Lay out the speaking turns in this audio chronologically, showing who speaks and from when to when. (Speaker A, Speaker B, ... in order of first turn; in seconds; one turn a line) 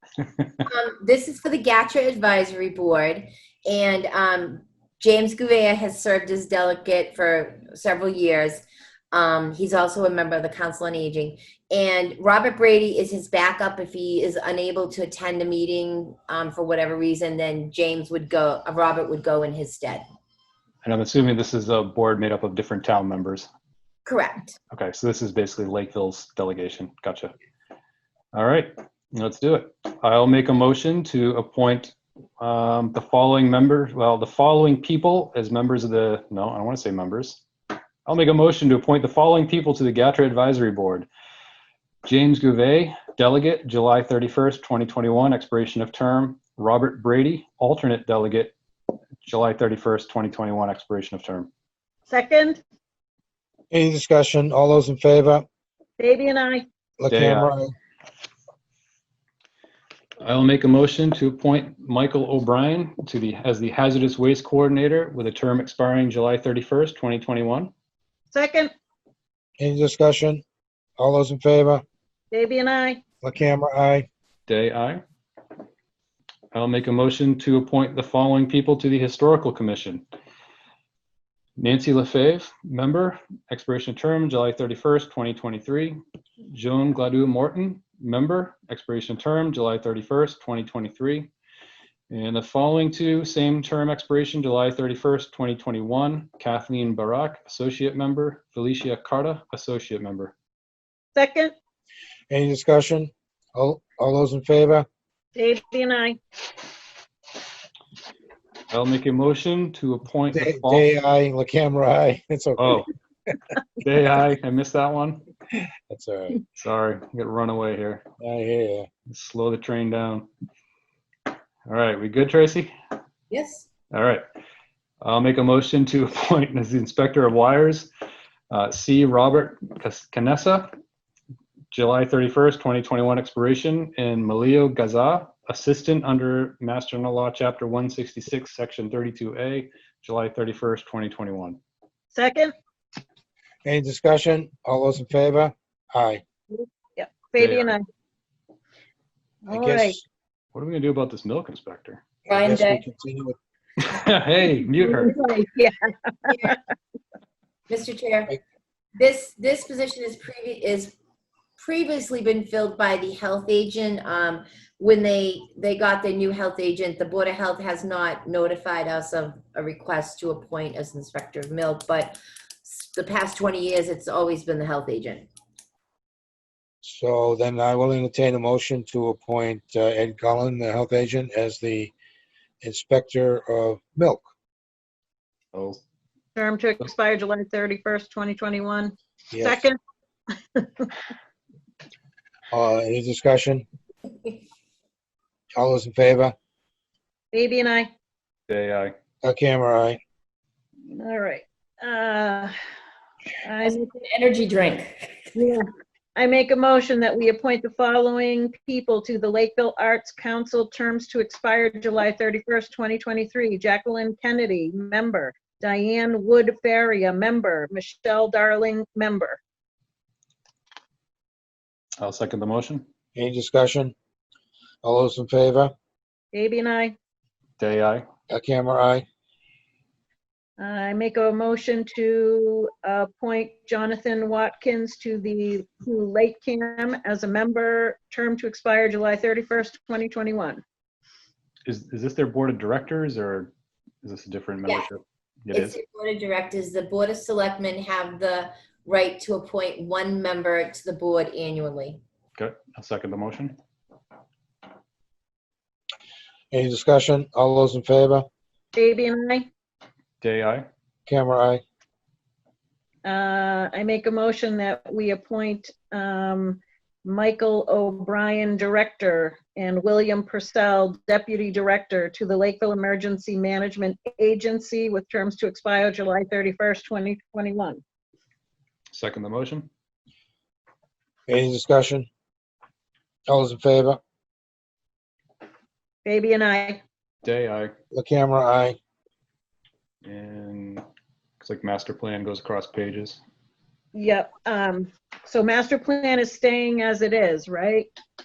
Speaker A: 0.7-20.0
Speaker B: 20.8-23.5
Speaker A: 24.1-24.6
Speaker B: 24.7-27.3
Speaker B: 28.3-37.4
Speaker B: 38.0-41.1
Speaker B: 42.0-48.5
Speaker B: 49.2-51.5
Speaker C: 52.1-52.6
Speaker D: 53.7-55.5
Speaker C: 56.0-56.6
Speaker D: 57.0-57.7
Speaker B: 57.1-57.5
Speaker B: 60.2-67.7
Speaker C: 68.3-68.7
Speaker D: 69.6-70.4
Speaker D: 71.0-71.8
Speaker C: 72.3-73.0
Speaker D: 73.2-74.1
Speaker B: 74.5-75.0
Speaker B: 76.5-80.0
Speaker B: 81.6-91.3
Speaker B: 92.1-100.3
Speaker C: 101.1-101.5
Speaker D: 102.3-104.8
Speaker C: 105.3-106.2
Speaker B: 108.7-110.9
Speaker D: 110.3-112.9
Speaker B: 112.6-112.9
Speaker B: 113.8-115.2
Speaker D: 115.9-116.4
Speaker B: 116.5-118.0
Speaker D: 118.2-118.9
Speaker B: 119.1-120.3
Speaker B: 121.7-122.7
Speaker A: 123.3-123.7
Speaker B: 123.9-124.2
Speaker B: 125.0-127.9
Speaker B: 128.5-130.7
Speaker B: 131.7-141.6
Speaker C: 142.1-142.5
Speaker D: 143.6-146.2
Speaker C: 146.5-147.8
Speaker B: 147.4-147.7
Speaker C: 149.4-150.0
Speaker D: 149.5-150.0
Speaker B: 150.5-152.0
Speaker A: 152.3-152.8
Speaker D: 152.3-153.3
Speaker B: 153.8-155.1
Speaker C: 154.9-156.5
Speaker A: 156.3-156.5
Speaker A: 157.7-158.4
Speaker A: 158.9-160.9
Speaker A: 161.6-175.3
Speaker D: 176.8-181.9
Speaker D: 182.6-184.2
Speaker B: 185.5-185.8
Speaker C: 186.3-189.8
Speaker D: 189.3-189.6
Speaker C: 190.5-190.9
Speaker D: 192.5-193.6
Speaker D: 195.5-196.3
Speaker C: 197.3-197.9
Speaker B: 198.5-198.9
Speaker D: 199.2-200.0
Speaker C: 200.9-202.5
Speaker C: 203.4-203.8
Speaker C: 205.3-205.6
Speaker C: 206.2-219.4
Speaker B: 222.0-222.8
Speaker D: 223.1-223.9
Speaker D: 224.8-225.7
Speaker C: 226.3-226.9
Speaker B: 227.6-228.0
Speaker D: 228.3-229.0
Speaker C: 230.6-240.6
Speaker B: 241.7-243.5
Speaker B: 244.0-245.8
Speaker A: 245.5-252.0
Speaker B: 252.3-253.6
Speaker D: 256.5-258.2
Speaker C: 258.7-259.5
Speaker B: 260.2-260.7
Speaker D: 261.1-261.6
Speaker C: 263.0-277.8
Speaker B: 278.9-279.7
Speaker D: 281.3-282.1
Speaker D: 283.3-284.0
Speaker C: 286.0-286.8
Speaker B: 287.2-287.7
Speaker D: 287.9-288.8
Speaker B: 290.0-290.8
Speaker B: 291.4-293.2
Speaker C: 293.9-297.9